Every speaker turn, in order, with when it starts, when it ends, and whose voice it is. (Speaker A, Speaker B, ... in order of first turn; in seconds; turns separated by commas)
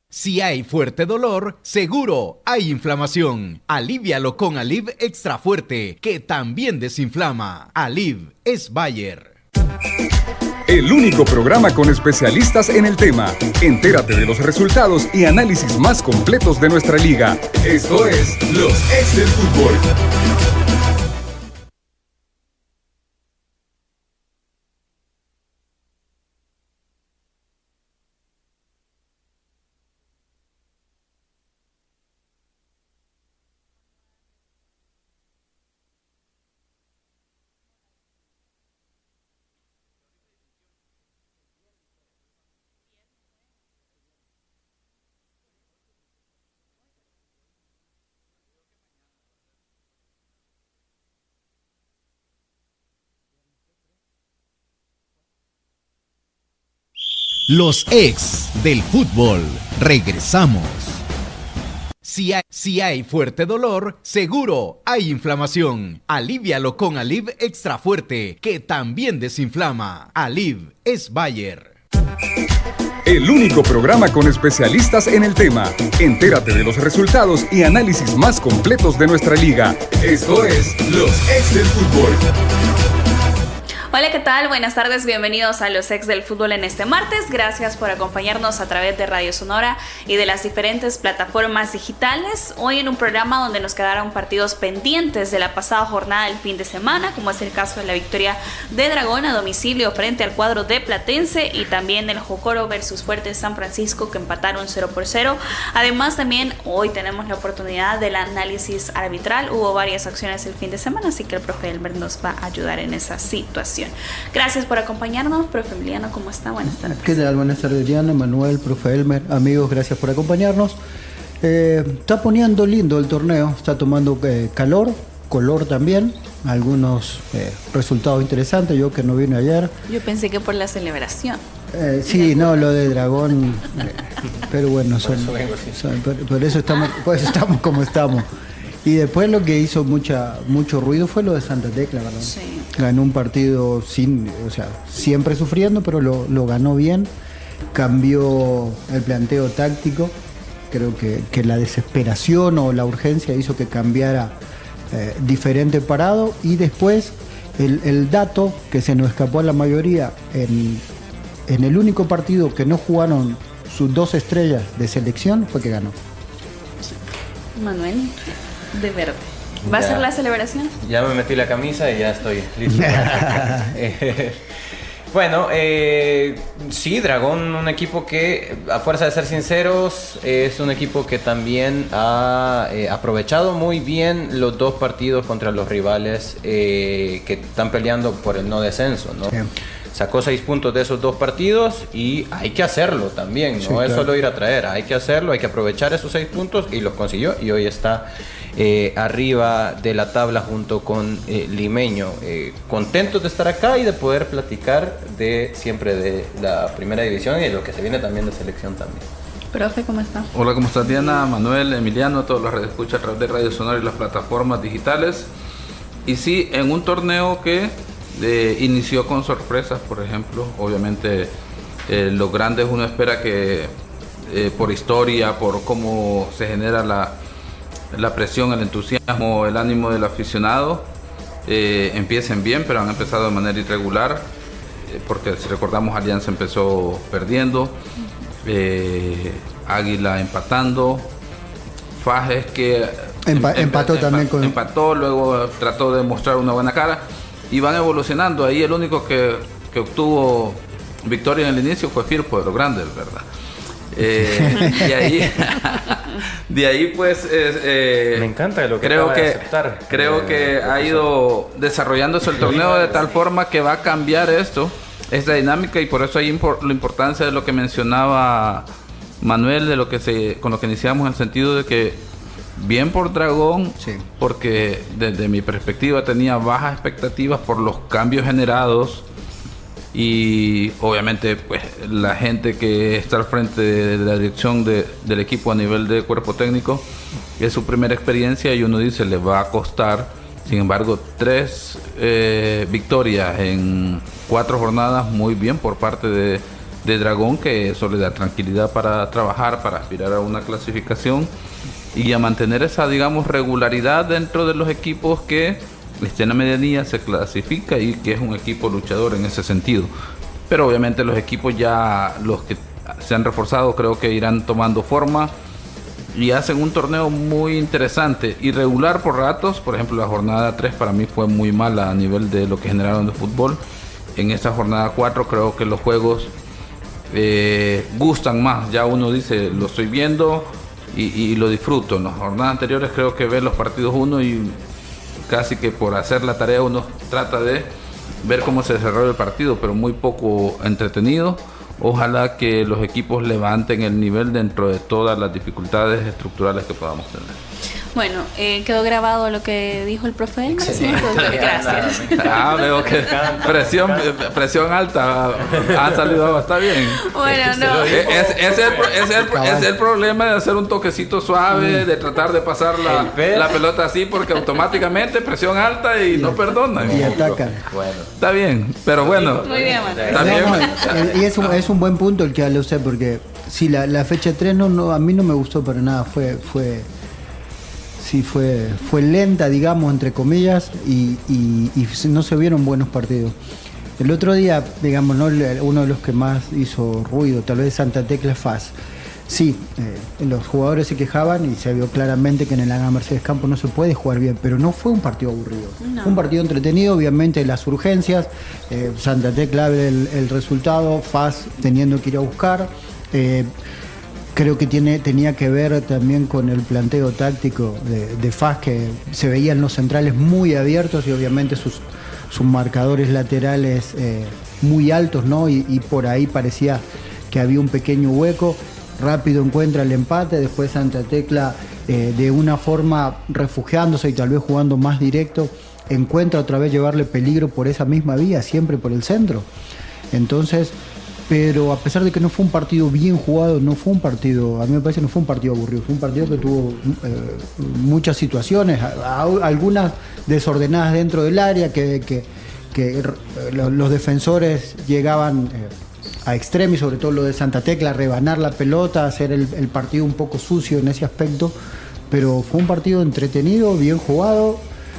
Speaker A: 0.1-9.3, Speaker B: 10.7-19.9, Speaker A: 57.5-61.0, Speaker A: 62.0-71.7, Speaker B: 73.0-82.2, Speaker C: 83.9-117.1, Speaker D: 116.8-120.8, Speaker D: 121.4-129.7, Speaker C: 129.9-131.4, Speaker D: 131.7-138.3, Speaker C: 132.1-132.4, Speaker E: 135.0-135.8, Speaker D: 138.8-147.1, Speaker C: 142.2-142.7, Speaker D: 147.7-150.1, Speaker D: 150.7-154.4, Speaker D: 154.9-160.8, Speaker D: 161.5-165.9, Speaker C: 167.6-170.7, Speaker E: 169.6-170.0, Speaker E: 170.8-174.4, Speaker D: 172.7-173.7, Speaker E: 175.1-189.4, Speaker E: 189.9-209.1, Speaker D: 193.6-194.1, Speaker C: 209.5-210.3, Speaker F: 210.3-215.3, Speaker F: 216.1-221.3, Speaker F: 221.9-223.7, Speaker F: 224.3-227.2, Speaker F: 227.9-230.8, Speaker F: 231.4-234.3, Speaker F: 234.8-237.8, Speaker F: 238.4-241.1, Speaker F: 242.0-253.2, Speaker D: 243.2-244.6, Speaker F: 253.9-258.3, Speaker D: 254.3-255.1, Speaker E: 258.1-261.1, Speaker F: 258.8-268.7, Speaker E: 262.3-263.1, Speaker F: 269.2-272.0, Speaker F: 272.6-279.0, Speaker F: 279.9-286.9, Speaker F: 287.4-301.3, Speaker F: 301.9-309.9, Speaker F: 310.5-315.3, Speaker F: 316.1-323.6, Speaker F: 324.1-326.3, Speaker F: 327.1-334.6, Speaker F: 335.3-337.7, Speaker F: 338.2-347.4, Speaker C: 347.9-352.7, Speaker E: 350.5-354.3, Speaker F: 350.9-351.4, Speaker F: 352.1-357.1, Speaker E: 355.5-356.2, Speaker C: 356.9-358.2, Speaker E: 357.2-358.9, Speaker F: 357.9-367.4, Speaker D: 359.2-359.7, Speaker D: 361.5-361.9, Speaker E: 362.8-363.6, Speaker D: 366.1-367.6, Speaker E: 366.8-368.1, Speaker F: 368.2-371.2, Speaker E: 369.0-371.2, Speaker C: 369.4-370.5, Speaker D: 370.1-376.9, Speaker D: 378.0-383.3, Speaker D: 384.0-388.7, Speaker D: 389.3-403.5, Speaker C: 395.8-396.3, Speaker D: 404.3-429.5, Speaker D: 430.1-430.7, Speaker D: 431.3-445.7, Speaker D: 446.2-451.5, Speaker D: 452.1-454.7